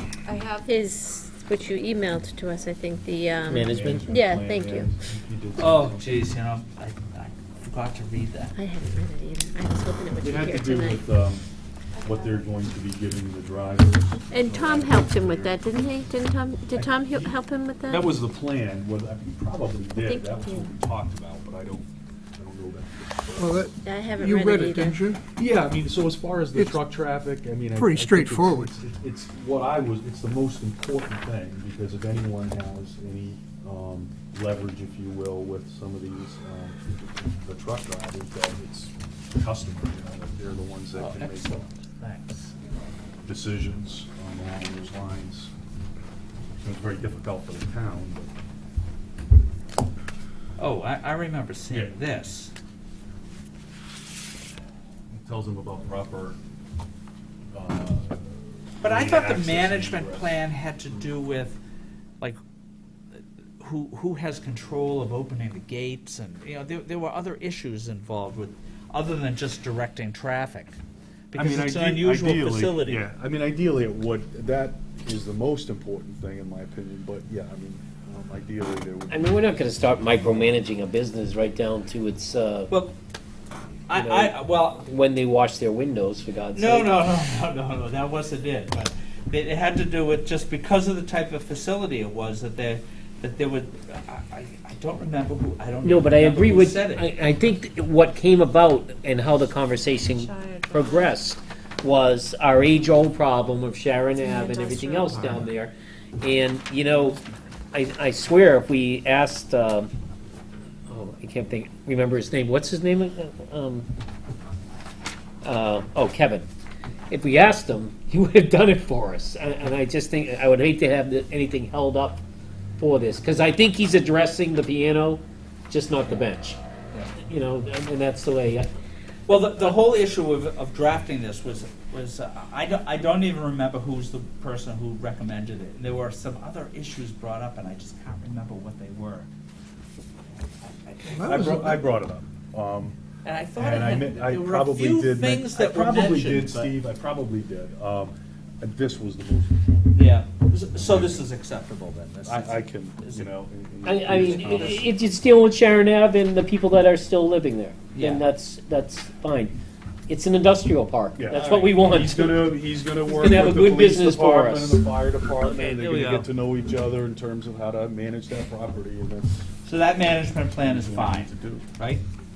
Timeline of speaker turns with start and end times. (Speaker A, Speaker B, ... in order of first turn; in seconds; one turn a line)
Speaker A: 0.2-0.7
Speaker B: 0.7-4.9
Speaker C: 3.5-4.1
Speaker D: 3.5-6.3
Speaker E: 5.6-8.6
Speaker B: 8.6-11.1
Speaker D: 10.2-11.5
Speaker A: 11.9-12.5
Speaker D: 12.0-15.7
Speaker B: 14.3-18.1
Speaker D: 16.8-23.7
Speaker B: 20.0-20.7
Speaker F: 23.4-25.2
Speaker B: 23.8-25.0
Speaker D: 25.4-41.7
Speaker F: 26.6-26.8
Speaker F: 27.8-28.7
Speaker E: 41.0-42.5
Speaker D: 43.2-45.5
Speaker D: 46.6-48.3
Speaker E: 50.6-52.5
Speaker D: 51.7-52.0
Speaker D: 55.1-56.4
Speaker D: 57.5-60.4
Speaker E: 58.8-61.6
Speaker E: 63.1-70.8
Speaker E: 71.3-73.1
Speaker D: 71.3-80.6
Speaker C: 79.1-82.7
Speaker E: 82.7-83.0
Speaker E: 83.9-84.8
Speaker C: 83.9-87.0
Speaker E: 86.5-97.1
Speaker C: 95.8-107.2
Speaker A: 104.2-105.1
Speaker C: 107.7-109.9
Speaker C: 110.9-113.9
Speaker C: 115.4-116.5
Speaker C: 117.1-122.2
Speaker C: 122.8-126.6
Speaker C: 127.1-128.7
Speaker E: 129.3-139.3
Speaker E: 140.3-141.4
Speaker F: 141.1-141.8
Speaker D: 141.2-143.0
Speaker E: 143.2-146.8
Speaker D: 143.6-149.9
Speaker E: 149.9-153.3
Speaker D: 150.8-151.3
Speaker D: 152.3-154.9
Speaker C: 153.8-159.6
Speaker E: 154.1-154.8
Speaker E: 157.9-158.3
Speaker C: 160.1-164.9
Speaker D: 161.2-169.5
Speaker E: 161.3-162.0
Speaker E: 165.4-166.3
Speaker E: 169.6-172.0
Speaker D: 170.6-171.7